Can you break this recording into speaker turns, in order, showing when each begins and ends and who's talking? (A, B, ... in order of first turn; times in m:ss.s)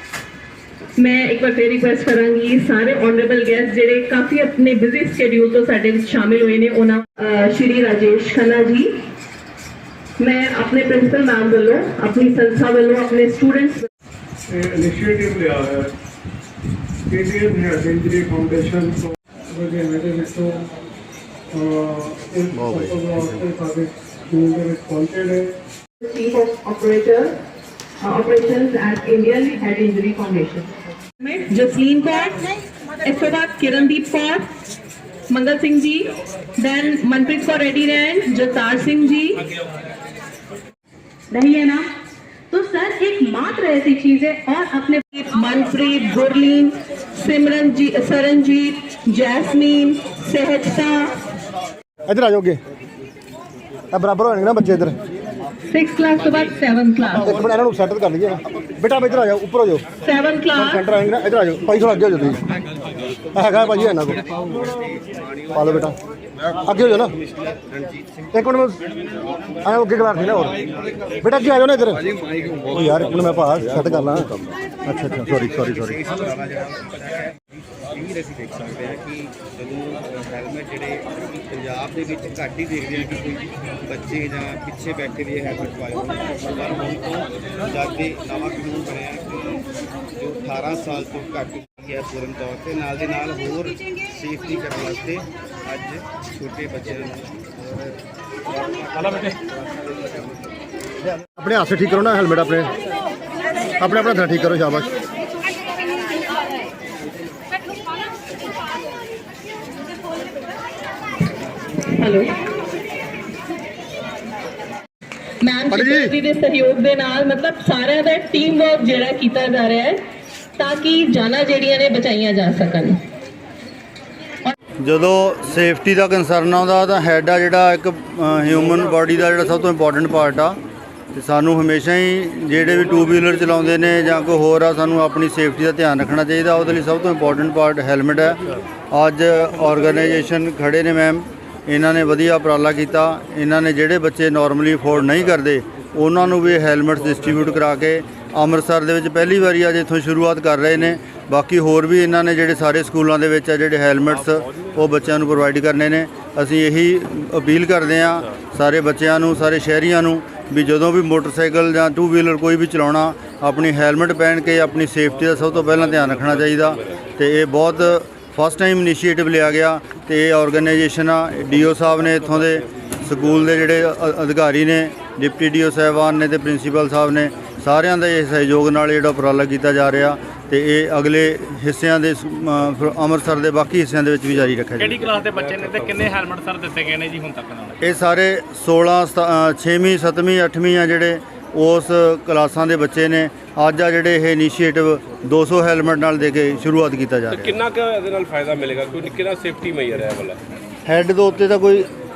0:01.0-0:09.0 A
0:10.2-0:13.9 A
0:14.5-0:15.9 B
0:17.1-0:20.7 B
0:21.5-0:25.6 B
0:22.5-0:23.5 C
0:26.0-0:27.4 A
0:28.0-0:32.5 A
0:33.0-0:34.4 A
0:35.3-0:39.4 A
0:41.3-0:41.9 D
0:42.5-0:45.0 D
0:45.1-0:51.1 A
0:52.1-0:52.6 E
0:53.9-0:55.0 E
0:55.7-0:57.4 A
0:57.2-0:59.8 E
1:00.0-1:00.9 A
1:00.6-1:02.4 E
1:02.5-1:05.9 F
1:03.3-1:04.2 E
1:05.5-1:06.0 E
1:06.6-1:07.1 E
1:06.6-1:08.4 F
1:08.3-1:08.8 E
1:09.6-1:10.6 E
1:10.4-1:13.3 F
1:11.2-1:12.0 E
1:12.7-1:14.3 E
1:14.9-1:15.9 E
1:14.9-1:29.6 F
1:15.4-1:15.7 C
1:30.2-1:37.9 F
1:38.5-1:40.3 F
1:39.0-1:39.3 G
1:41.4-1:42.7 E
1:43.8-1:44.9 E
1:51.9-1:52.3 A
1:55.4-2:00.0 A
1:55.7-1:56.1 E
2:00.6-2:03.0 A
2:04.8-2:10.6 C
2:11.1-2:18.4 C
2:18.9-3:05.2 C
2:34.1-2:34.9 H
2:45.7-2:47.1 H
3:04.8-3:07.8 G
3:05.2-3:06.1 H
3:07.8-3:17.6 C
3:17.3-3:20.4 H
3:20.8-3:21.9 C